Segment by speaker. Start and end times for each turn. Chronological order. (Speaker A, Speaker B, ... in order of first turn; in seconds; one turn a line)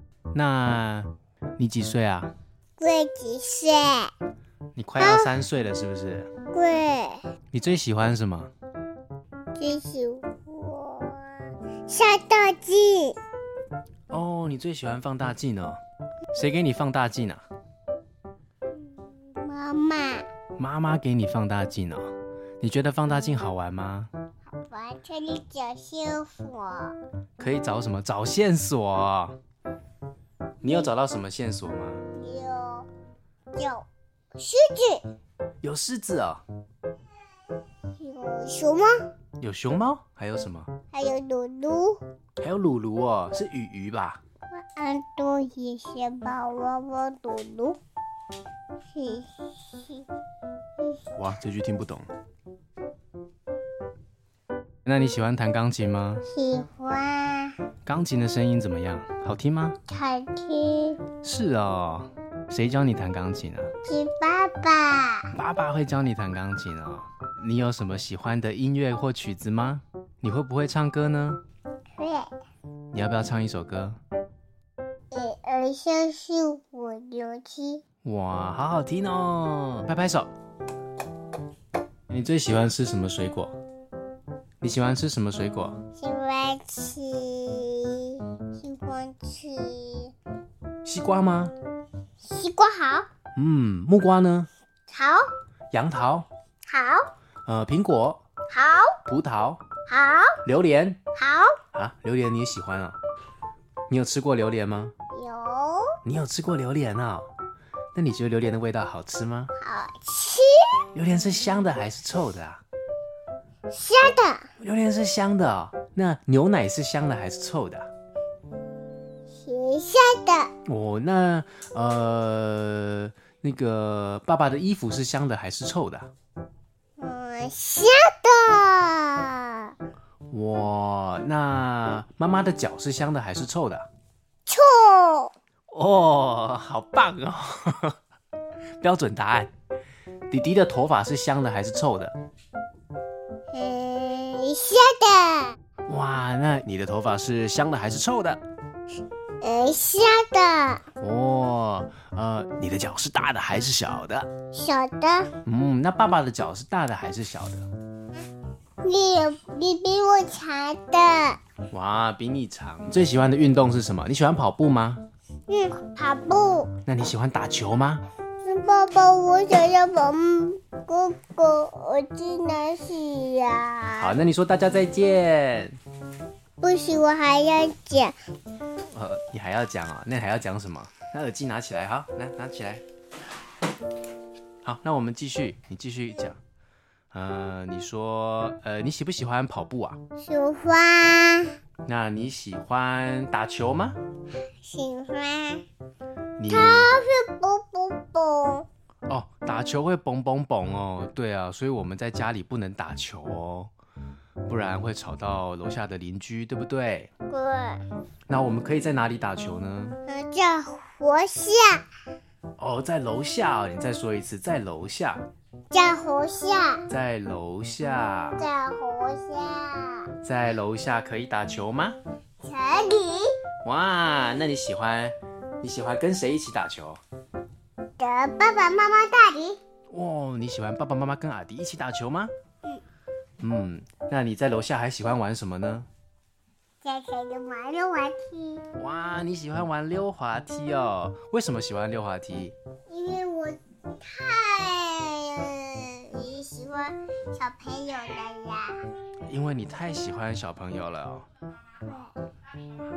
Speaker A: 0.3-2.3
Speaker B: 2.8-4.1
Speaker A: 4.8-6.3
Speaker B: 5.0-5.3
Speaker B: 6.5-7.2
Speaker A: 7.5-8.5
Speaker B: 9.6-13.2
Speaker A: 14.1-15.8
Speaker A: 16.3-17.4
Speaker B: 19.2-20.3
Speaker A: 20.6-24.1
Speaker B: 24.5-27.0
Speaker A: 27.4-29.4
Speaker A: 30.6-32.0
Speaker B: 32.1-32.9
Speaker B: 33.6-35.1
Speaker A: 35.6-36.4
Speaker B: 38.0-39.1
Speaker A: 39.4-40.7
Speaker B: 40.9-42.0
Speaker A: 42.4-44.2
Speaker B: 44.5-47.8
Speaker B: 48.9-50.1
Speaker A: 51.2-52.1
Speaker A: 54.9-56.2
Speaker B: 56.3-57.6
Speaker A: 57.9-59.8
Speaker B: 59.9-61.0
Speaker A: 61.2-63.7
Speaker B: 63.9-65.3
Speaker A: 65.3-71.4
Speaker B: 72.0-72.3
Speaker A: 72.9-74.0
Speaker B: 75.1-77.8
Speaker A: 78.0-80.3
Speaker A: 82.1-83.5
Speaker A: 84.6-85.8
Speaker B: 86.0-90.1
Speaker A: 90.8-91.5
Speaker B: 92.2-93.1
Speaker A: 93.3-94.5
Speaker B: 94.9-95.3
Speaker A: 95.7-96.3
Speaker B: 96.7-97.1
Speaker A: 97.5-98.2
Speaker B: 98.5-99.0
Speaker A: 99.1-99.7
Speaker B: 99.9-100.4
Speaker A: 100.4-101.0
Speaker B: 101.1-101.6
Speaker A: 101.7-103.0
Speaker A: 103.9-104.9
Speaker B: 105.1-106.0
Speaker A: 106.0-107.3
Speaker A: 107.9-109.5
Speaker B: 109.6-110.9
Speaker A: 110.9-112.6
Speaker B: 113.7-114.5
Speaker A: 114.6-117.9
Speaker B: 119.3-120.5
Speaker A: 120.7-126.1
Speaker B: 127.0-129.7
Speaker A: 130.3-133.9
Speaker B: 134.5-135.3
Speaker A: 135.7-138.0
Speaker A: 138.8-139.5
Speaker A: 140.3-142.1
Speaker B: 143.5-145.6
Speaker A: 145.9-148.4
Speaker B: 149.4-150.8
Speaker A: 151.0-154.3
Speaker B: 154.5-155.3
Speaker A: 155.4-157.7
Speaker B: 158.8-161.4
Speaker A: 161.7-165.1
Speaker B: 165.5-166.7
Speaker A: 166.9-168.1
Speaker B: 168.4-174.2
Speaker A: 174.0-175.8
Speaker B: 176.6-178.2
Speaker A: 178.9-182.8
Speaker A: 184.6-186.4
Speaker A: 187.1-190.0
Speaker B: 190.2-191.6
Speaker A: 191.8-194.0
Speaker B: 194.6-195.7
Speaker A: 196.4-197.0
Speaker B: 196.5-198.7
Speaker A: 199.1-203.7
Speaker A: 204.5-207.1
Speaker B: 207.3-207.8
Speaker A: 208.3-210.0
Speaker B: 210.1-211.9
Speaker A: 212.6-215.2
Speaker B: 215.7-216.9
Speaker A: 216.9-218.4
Speaker B: 218.4-220.1
Speaker A: 220.2-222.0
Speaker B: 222.4-223.3
Speaker A: 223.6-227.0
Speaker B: 228.0-229.6
Speaker A: 229.9-232.3
Speaker A: 233.4-235.9
Speaker B: 236.8-238.7
Speaker A: 238.8-242.6
Speaker B: 242.9-248.8
Speaker A: 249.3-251.3
Speaker B: 251.8-252.1